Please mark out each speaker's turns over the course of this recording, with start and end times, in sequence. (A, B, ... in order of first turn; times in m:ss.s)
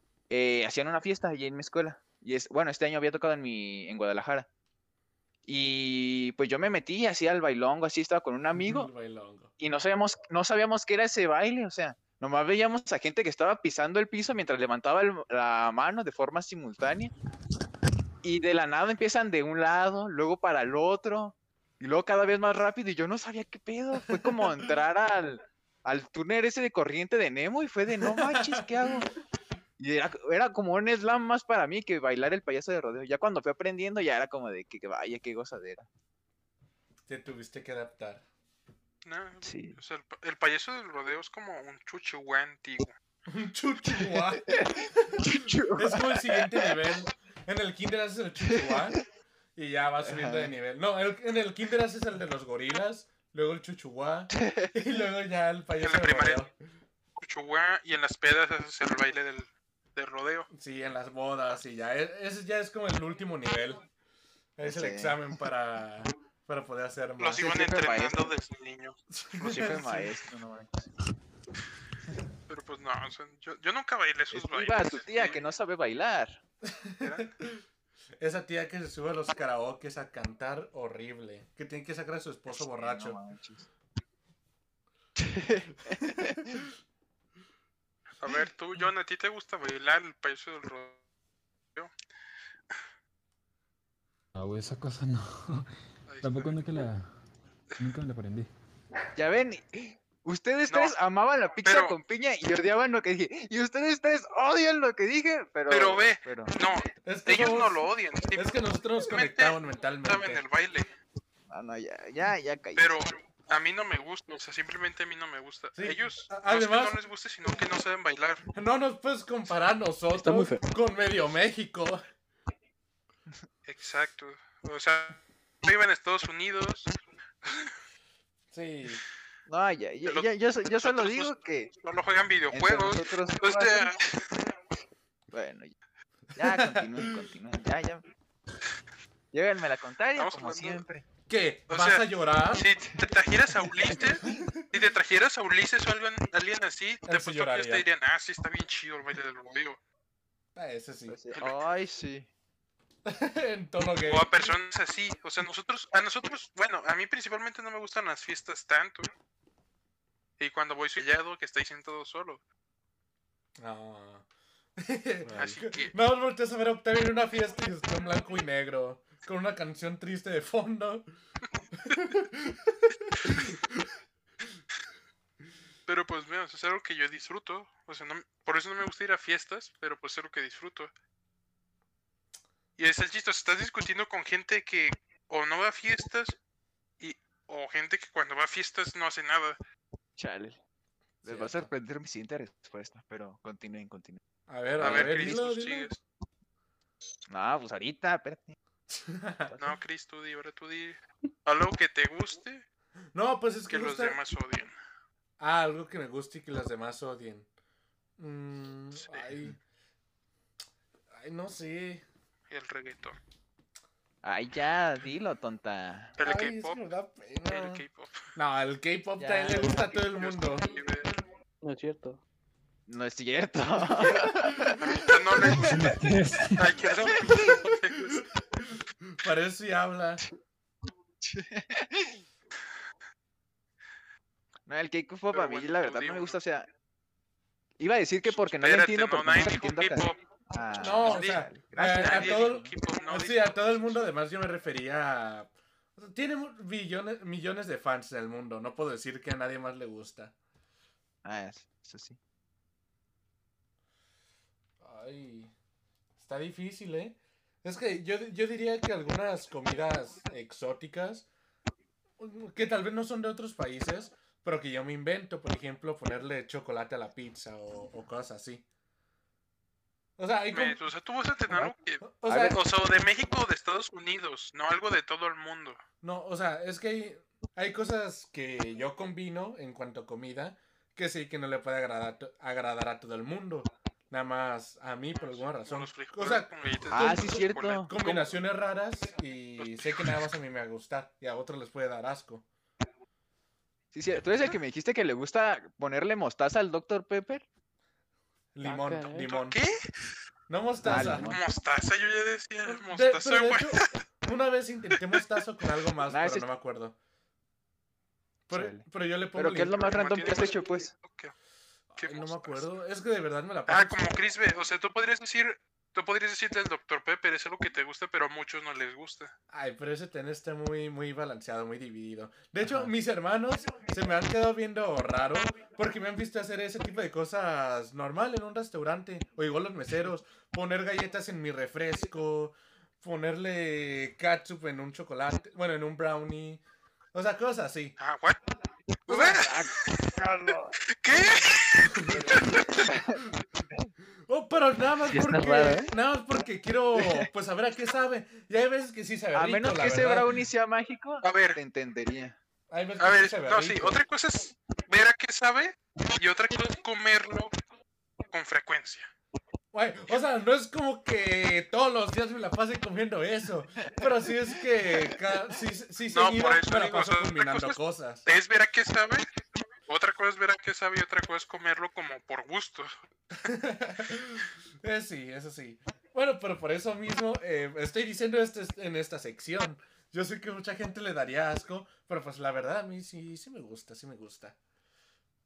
0:00.3-0:04.5 A
0:05.5-0:08.9 A
0:08.6-0:09.5 B
0:09.6-0:17.1 A
0:18.2-0:29.1 A
0:24.1-0:24.4 B
0:28.0-0:28.6 B
0:29.8-0:35.9 A
0:37.1-0:38.2 B
0:39.0-0:43.0 C
0:39.4-0:39.8 A
0:43.3-0:49.0 B
0:43.9-0:46.8 A
0:48.5-0:49.0 A
0:49.6-0:56.5 B
0:50.0-0:50.6 A
0:54.3-0:54.8 A
0:55.8-0:56.4 C
0:57.2-1:00.5 C
1:00.5-1:03.8 B
1:04.6-1:07.5 B
1:04.6-1:05.2 A
1:07.2-1:09.0 C
1:07.3-1:08.3 A
1:09.2-1:10.1 B
1:09.4-1:10.9 A
1:12.5-1:15.4 C
1:14.3-1:16.4 A
1:16.7-1:17.6 B
1:17.0-1:17.3 C
1:18.2-1:23.2 B
1:22.5-1:23.7 A
1:25.2-1:26.5 A
1:28.2-1:31.0 C
1:34.4-1:35.7 D
1:36.1-1:36.6 C
1:36.2-1:37.1 D
1:37.8-1:38.5 D
1:39.2-1:46.5 A
1:40.7-1:41.0 C
1:41.6-1:42.0 C
1:45.7-1:50.9 C
1:47.0-1:50.4 B
1:51.5-1:53.0 A
1:52.8-1:58.5 C
1:55.8-1:57.0 B
1:58.5-2:02.0 B
2:00.1-2:00.6 E
2:03.7-2:06.9 C
2:07.4-2:07.7 C
2:08.5-2:09.0 B
2:09.5-2:11.7 A
2:10.0-2:14.3 C
2:12.5-2:13.9 A
2:15.3-2:15.8 A
2:16.4-2:18.0 A
2:16.4-2:17.0 B
2:19.3-2:21.1 A
2:20.2-2:20.8 C
2:21.3-2:22.7 B
2:21.7-2:29.8 C
2:24.0-2:24.3 A
2:24.2-2:24.6 B
2:27.1-2:27.9 B
2:30.6-2:31.2 B
2:31.1-2:32.3 A
2:33.1-2:34.3 B
2:34.0-2:39.1 C
2:40.4-2:42.4 C
2:43.6-2:44.2 B
2:44.8-2:51.1 B
2:45.3-2:46.0 C
2:51.8-2:53.8 B
2:55.9-3:00.9 C
3:02.8-3:06.4 C
3:07.0-3:09.6 C
3:10.2-3:10.6 A
3:11.2-3:11.7 B
3:11.2-3:14.2 A
3:14.5-3:15.9 B
3:14.8-3:15.4 A
3:14.8-3:16.0 C
3:17.3-3:18.6 A
3:18.9-3:19.6 B
3:19.6-3:22.6 C
3:23.1-3:24.2 B
3:23.7-3:24.7 C
3:25.4-3:27.5 B
3:28.2-3:29.6 B
3:29.0-3:29.4 C
3:31.1-3:32.0 B
3:32.5-3:33.2 C
3:34.2-3:36.2 A
3:36.2-3:36.8 C
3:36.2-3:37.8 B
3:37.5-3:38.1 C
3:38.4-3:40.7 B
3:39.2-3:40.0 A
3:39.7-3:41.1 C
3:41.6-3:42.2 E
3:42.9-3:45.8 A
3:44.8-3:46.0 C
3:45.5-3:46.7 D
3:46.6-3:48.2 C
3:48.0-3:50.2 B
3:51.2-3:52.2 A
3:54.7-3:56.7 A
3:55.3-3:56.4 C
3:57.8-4:02.7 A
3:58.2-4:00.2 C
4:00.8-4:10.3 B
4:01.0-4:04.0 C
4:11.2-4:12.2 A
4:14.8-4:15.5 B
4:16.2-4:21.3 B
4:22.2-4:28.6 B
4:30.2-4:30.8 B
4:30.5-4:35.8 C
4:32.0-4:32.6 B
4:32.3-4:32.6 A
4:36.0-4:52.4 B
4:45.2-4:48.3 C
4:46.9-4:48.0 A
4:49.6-4:50.2 C
4:53.9-4:57.5 A
4:58.5-4:59.6 B
4:58.6-4:59.3 E
4:59.3-4:59.9 C
5:00.5-5:01.4 B
5:00.8-5:01.5 A
5:00.9-5:01.2 E
5:01.2-5:03.9 C
5:02.7-5:07.0 B
5:06.1-5:06.5 A
5:08.5-5:10.0 B
5:08.5-5:10.9 A
5:09.8-5:11.3 C
5:11.9-5:14.1 B
5:12.0-5:12.8 C
5:13.7-5:19.3 C
5:19.5-5:36.6 B
5:22.6-5:22.9 A
5:37.1-5:38.0 B
5:38.0-5:38.4 C
5:39.1-5:40.1 C
5:39.1-5:41.4 A
5:40.9-5:42.9 C
5:41.8-5:42.9 B
5:42.3-5:43.2 A
5:44.3-5:50.3 B
5:45.1-5:45.8 A
5:45.2-5:45.8 E
5:49.3-5:52.4 A
5:51.2-5:51.6 C
5:52.7-5:54.0 B
5:53.0-5:57.5 C
5:58.3-5:59.1 C
5:59.7-6:08.3 B
6:06.1-6:09.3 C
6:09.9-6:12.9 C
6:13.4-6:24.6 B